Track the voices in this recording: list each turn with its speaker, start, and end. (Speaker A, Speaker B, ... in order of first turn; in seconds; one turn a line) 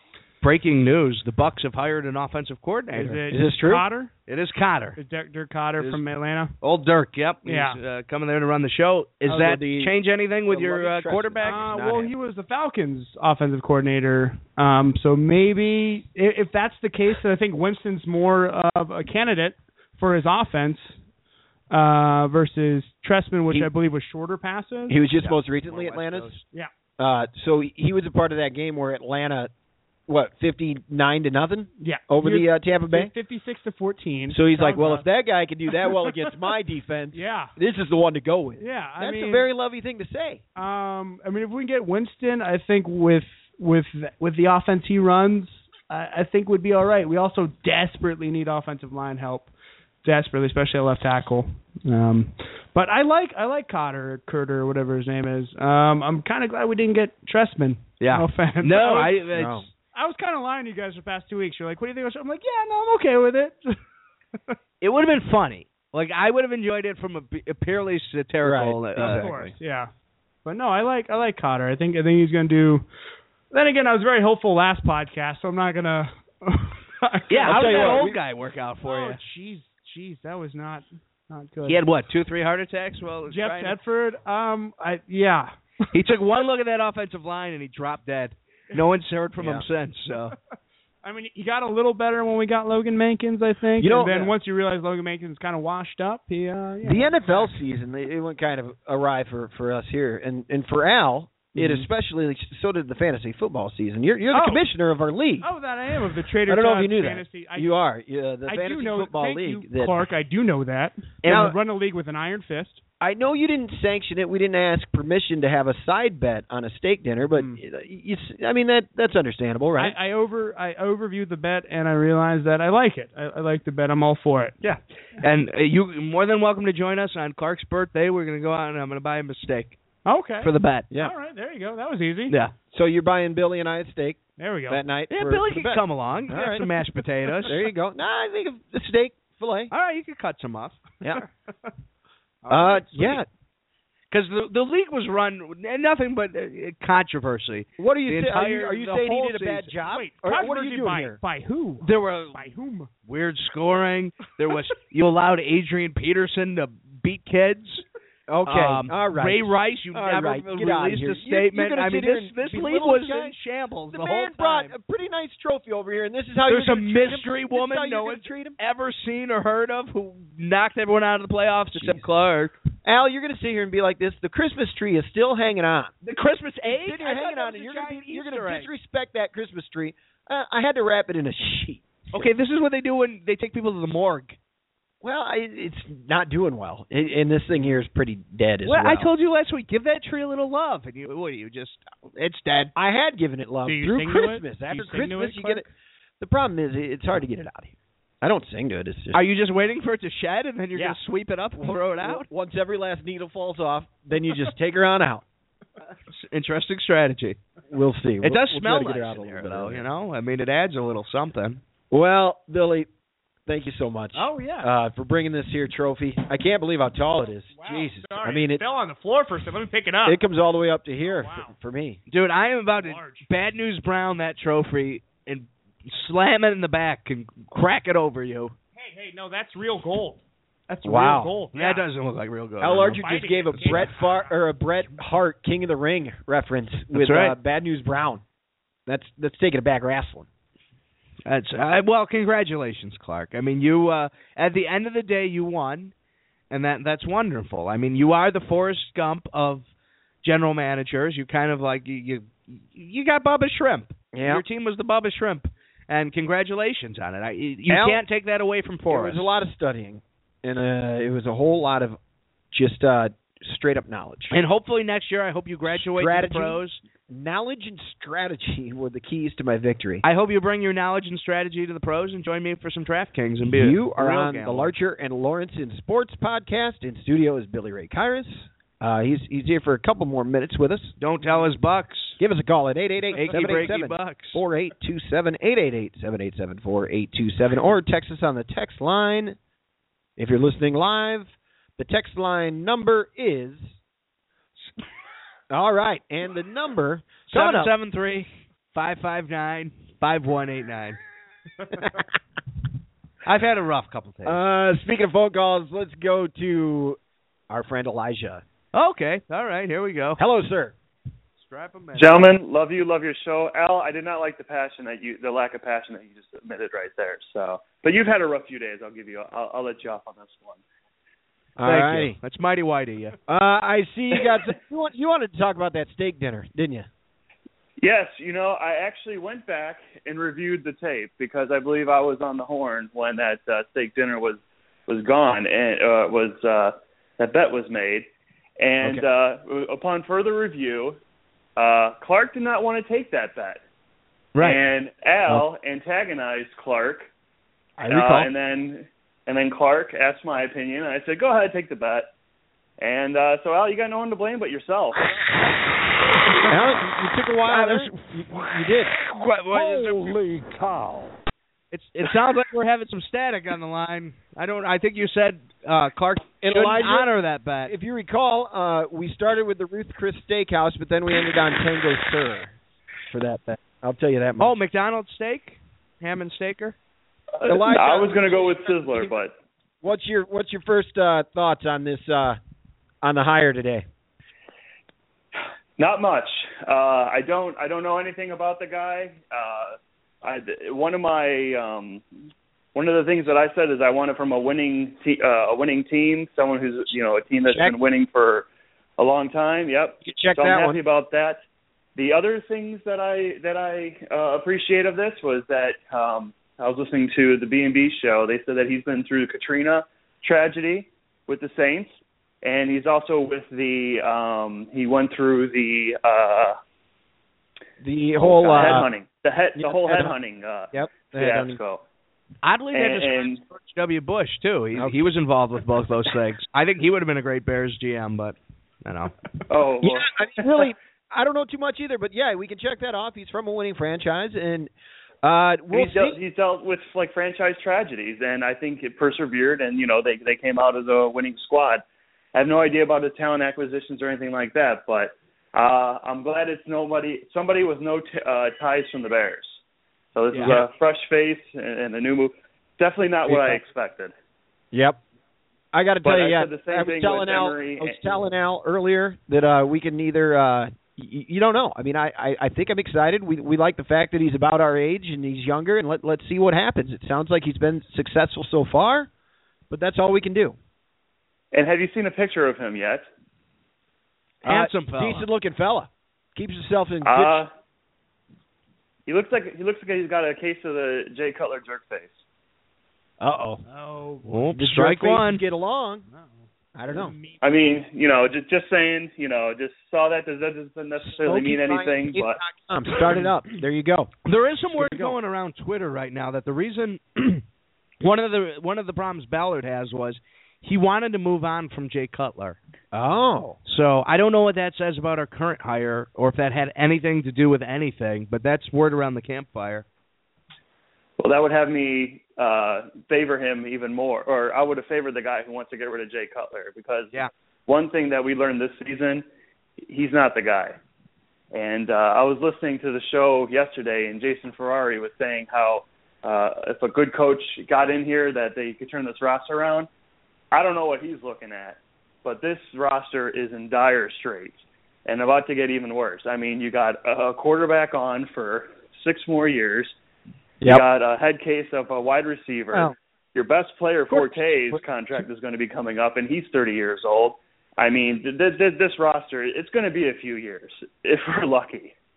Speaker A: 0.4-3.2
Speaker B: 2.9-4.1
Speaker C: 3.3-3.9
Speaker A: 4.3-5.0
Speaker B: 5.0-6.5
Speaker A: 6.6-11.7
Speaker B: 7.5-7.8
Speaker C: 9.2-12.1
Speaker B: 11.4-21.0
Speaker B: 21.7-25.0
Speaker C: 24.9-26.4
Speaker A: 25.2-26.4
Speaker C: 27.0-29.5
Speaker C: 30.1-33.1
Speaker B: 31.8-35.1
Speaker C: 34.3-40.4
Speaker B: 35.8-36.3
Speaker B: 37.1-37.5
Speaker B: 38.6-39.5
Speaker B: 40.6-49.5
Speaker B: 50.0-59.2
Speaker A: 58.0-59.7
Speaker C: 59.3-59.7
Speaker B: 59.9-63.8
Speaker A: 64.8-69.3
Speaker C: 68.4-69.5
Speaker B: 69.0-69.9
Speaker B: 70.5-72.8
Speaker B: 73.5-78.1
Speaker A: 77.3-79.2
Speaker C: 77.4-78.2
Speaker B: 78.8-81.8
Speaker A: 81.7-83.8
Speaker B: 83.3-85.5
Speaker A: 85.9-90.3
Speaker C: 89.4-89.7
Speaker B: 91.0-97.6
Speaker C: 93.8-94.3
Speaker C: 96.8-105.5
Speaker B: 104.3-104.6
Speaker B: 105.4-107.7
Speaker C: 106.5-110.0
Speaker B: 108.5-112.8
Speaker A: 111.2-111.5
Speaker C: 111.2-111.6
Speaker C: 113.0-120.0
Speaker B: 119.8-124.6
Speaker A: 124.6-129.8
Speaker B: 130.1-132.3
Speaker A: 130.4-130.9
Speaker C: 132.7-136.7
Speaker B: 134.4-134.8
Speaker A: 135.1-137.6
Speaker C: 137.4-139.7
Speaker A: 139.7-140.9
Speaker B: 142.5-142.9
Speaker C: 142.5-143.3
Speaker A: 144.1-149.7
Speaker C: 147.8-151.2
Speaker B: 149.9-152.9
Speaker A: 151.8-152.4
Speaker A: 153.1-157.8
Speaker C: 158.3-163.4
Speaker A: 158.5-164.7
Speaker C: 163.9-168.6
Speaker A: 166.5-172.5
Speaker C: 171.7-172.1
Speaker C: 172.8-175.9
Speaker A: 176.0-178.7
Speaker C: 176.7-182.3
Speaker A: 182.1-184.4
Speaker C: 185.0-189.1
Speaker A: 188.7-192.7
Speaker C: 192.8-195.7
Speaker B: 193.7-195.7
Speaker C: 196.2-199.2
Speaker A: 199.1-202.3
Speaker C: 200.7-201.0
Speaker C: 201.6-205.2
Speaker A: 206.1-207.4
Speaker C: 207.7-209.9
Speaker A: 208.2-211.6
Speaker C: 211.9-212.9
Speaker C: 213.5-218.6
Speaker B: 214.2-214.7
Speaker B: 217.5-220.2
Speaker C: 220.0-222.0
Speaker B: 221.0-221.5
Speaker A: 222.1-228.5
Speaker B: 222.8-223.3
Speaker B: 228.8-231.8
Speaker C: 230.8-231.3
Speaker A: 231.5-233.0
Speaker C: 232.6-238.2
Speaker B: 232.7-234.3
Speaker A: 236.9-237.3
Speaker C: 238.9-240.3
Speaker A: 241.2-245.9
Speaker A: 246.5-249.7
Speaker A: 250.2-259.3
Speaker C: 254.1-254.4
Speaker C: 257.7-258.0
Speaker C: 258.9-262.0
Speaker C: 262.5-264.4
Speaker A: 264.3-266.8
Speaker C: 265.7-270.0
Speaker A: 270.0-274.7
Speaker C: 273.5-281.0
Speaker A: 281.0-282.2
Speaker C: 282.2-289.4
Speaker A: 283.1-284.4
Speaker C: 290.2-293.8
Speaker C: 295.5-297.7
Speaker A: 297.3-301.0
Speaker A: 303.2-304.4
Speaker C: 304.2-308.4
Speaker A: 308.7-310.2
Speaker C: 310.2-310.8
Speaker A: 311.4-312.2
Speaker D: 312.0-320.6
Speaker C: 321.6-322.2
Speaker A: 321.6-323.2
Speaker C: 323.3-326.9
Speaker D: 327.8-338.1
Speaker D: 338.6-341.0
Speaker D: 341.6-343.6
Speaker A: 344.4-344.6
Speaker D: 344.4-347.1
Speaker C: 347.8-348.3
Speaker D: 347.8-352.1
Speaker D: 352.8-355.2
Speaker C: 356.5-358.9
Speaker E: 357.5-358.1
Speaker A: 358.3-360.0
Speaker E: 359.5-361.1
Speaker A: 361.7-367.7
Speaker C: 366.4-372.6
Speaker C: 373.1-374.5
Speaker A: 374.4-376.8
Speaker D: 377.4-379.3
Speaker C: 377.4-379.1
Speaker C: 379.8-382.4
Speaker C: 383.0-383.9
Speaker D: 385.8-392.0
Speaker D: 392.8-398.5
Speaker C: 397.5-397.8
Speaker D: 399.0-401.4
Speaker C: 400.0-400.8
Speaker D: 402.0-411.9
Speaker D: 412.4-416.6
Speaker C: 417.8-418.9
Speaker D: 418.2-421.8
Speaker C: 419.6-420.1
Speaker C: 420.7-421.6
Speaker A: 422.4-429.1
Speaker D: 422.7-423.4
Speaker C: 424.7-425.1
Speaker D: 429.5-430.7
Speaker C: 429.8-434.7
Speaker C: 435.2-436.2
Speaker D: 435.7-441.8
Speaker D: 442.4-449.6
Speaker D: 450.1-454.1
Speaker C: 450.4-450.6
Speaker C: 453.3-453.6
Speaker C: 454.7-455.0
Speaker C: 455.7-469.1
Speaker D: 456.0-458.2
Speaker C: 469.7-470.6
Speaker D: 471.5-473.0
Speaker C: 474.4-477.4
Speaker A: 474.4-475.3
Speaker D: 477.0-477.5
Speaker D: 479.1-482.2
Speaker C: 483.2-483.6
Speaker B: 483.7-484.4
Speaker A: 484.2-485.4
Speaker C: 484.5-486.0
Speaker B: 486.1-487.4
Speaker C: 486.8-487.1
Speaker D: 487.4-492.4
Speaker C: 491.0-494.1
Speaker A: 494.2-497.4
Speaker C: 494.7-495.2
Speaker A: 498.0-502.6
Speaker C: 502.9-503.6
Speaker A: 503.7-509.9
Speaker D: 511.2-519.2
Speaker D: 519.9-520.8
Speaker D: 521.5-529.9
Speaker D: 530.5-540.0
Speaker D: 540.6-551.9
Speaker C: 544.1-544.8